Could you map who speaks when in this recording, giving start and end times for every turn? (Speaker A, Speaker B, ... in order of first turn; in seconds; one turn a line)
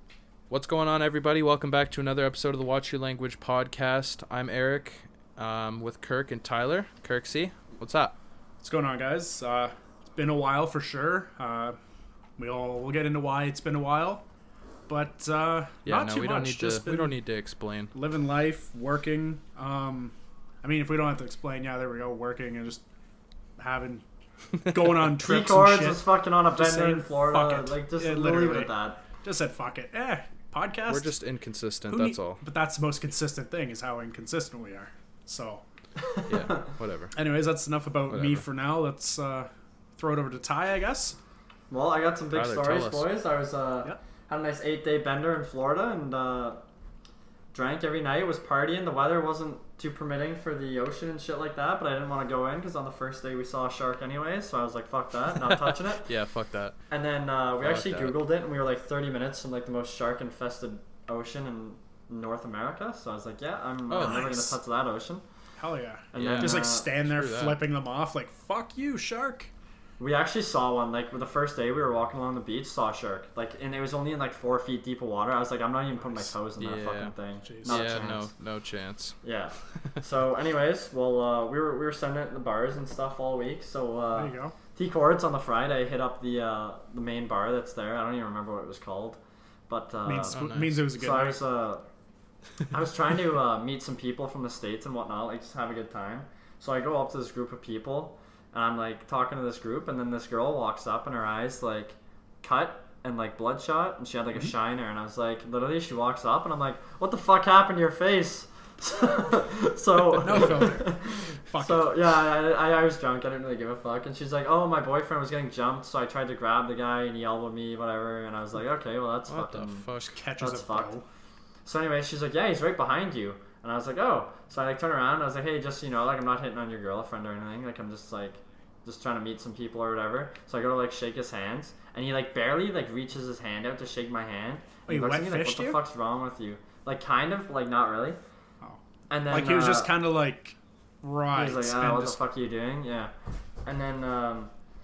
Speaker A: 0.5-8.2
Speaker B: 8.6-11.8
Speaker B: 12.4-14.2
Speaker B: 14.9-17.2
Speaker A: 15.8-17.9
Speaker B: 17.9-22.8
Speaker B: 23.6-24.0
Speaker B: 24.7-31.1
Speaker C: 25.2-29.0
Speaker A: 30.9-32.4
Speaker B: 31.9-35.6
Speaker C: 36.2-36.6
Speaker A: 36.3-37.1
Speaker B: 37.1-41.2
Speaker A: 38.1-38.4
Speaker C: 41.7-46.6
Speaker A: 42.3-43.1
Speaker C: 47.5-56.0
Speaker A: 55.5-56.8
Speaker C: 56.9-65.2
Speaker A: 57.6-58.2
Speaker A: 63.9-64.5
Speaker B: 65.6-69.5
Speaker C: 66.1-66.9
Speaker A: 66.1-67.6
Speaker C: 70.0-78.3
Speaker B: 76.0-76.3
Speaker A: 76.6-77.1
Speaker B: 77.4-77.9
Speaker A: 77.6-79.2
Speaker C: 79.2-91.8
Speaker B: 84.1-84.5
Speaker B: 90.0-91.4
Speaker A: 90.3-90.8
Speaker C: 92.7-119.9
Speaker B: 110.2-111.9
Speaker A: 110.3-110.6
Speaker A: 119.3-120.2
Speaker B: 120.1-121.0
Speaker C: 120.4-120.9
Speaker C: 121.7-138.2
Speaker B: 134.9-135.8
Speaker B: 138.6-142.2
Speaker C: 139.1-139.9
Speaker C: 141.3-143.1
Speaker C: 143.6-144.5